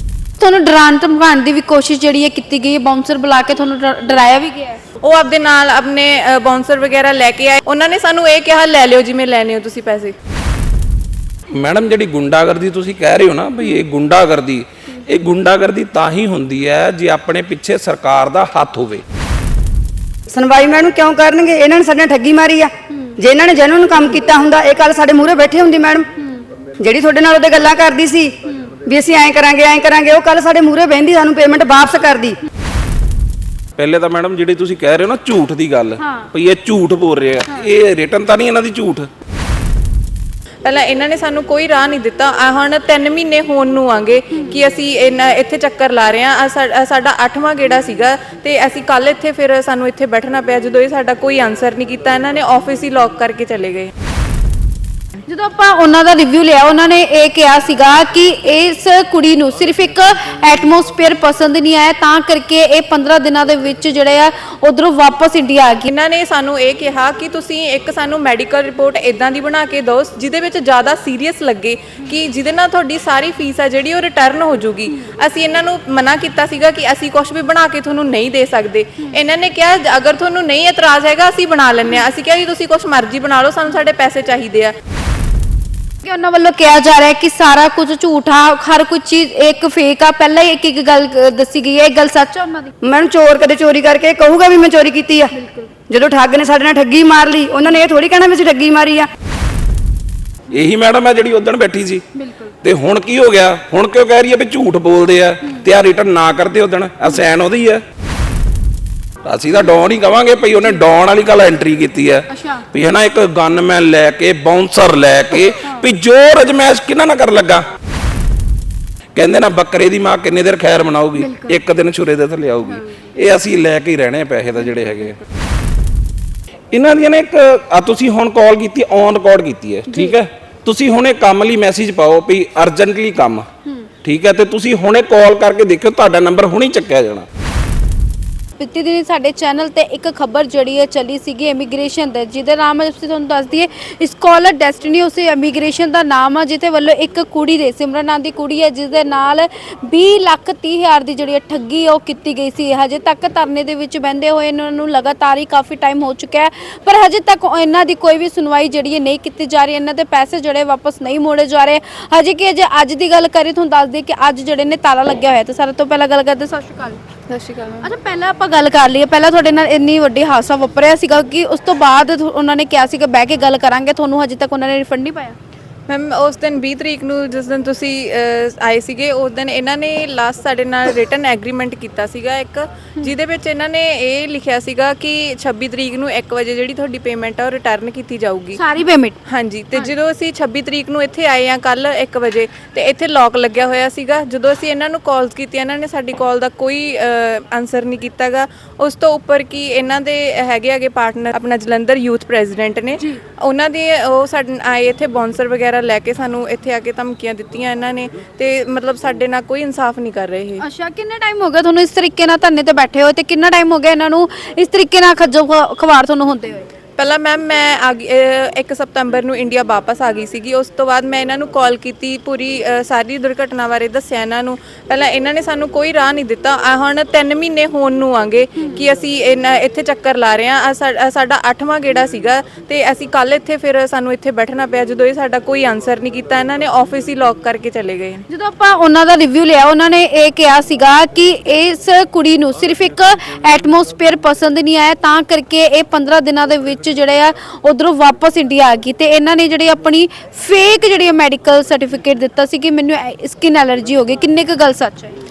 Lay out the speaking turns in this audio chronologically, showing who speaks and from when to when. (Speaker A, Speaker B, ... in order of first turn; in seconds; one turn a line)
Speaker A: 0.4-4.8
Speaker B: 5.0-10.1
Speaker C: 11.5-19.0
Speaker D: 20.3-26.1
Speaker A: 22.9-23.2
Speaker A: 26.2-26.5
Speaker D: 26.8-32.4
Speaker C: 33.8-39.1
Speaker A: 36.0-36.3
Speaker B: 40.6-53.9
Speaker A: 55.3-65.9
Speaker B: 65.9-84.7
Speaker A: 86.0-92.7
Speaker D: 92.8-95.3
Speaker A: 95.3-95.7
Speaker D: 95.9-99.1
Speaker C: 100.5-102.0
Speaker A: 102.1-102.5
Speaker C: 102.6-107.8
Speaker C: 109.2-117.7
Speaker A: 112.3-112.7
Speaker C: 119.1-125.2
Speaker A: 121.2-121.6
Speaker C: 126.7-133.5
Speaker A: 129.9-130.2
Speaker C: 134.0-137.3
Speaker A: 138.6-167.0
Speaker B: 167.3-167.9
Speaker A: 167.8-175.3
Speaker B: 175.9-188.6
Speaker A: 188.6-189.2
Speaker B: 189.3-210.6
Speaker A: 210.6-216.7
Speaker B: 217.0-238.2
Speaker A: 238.3-255.1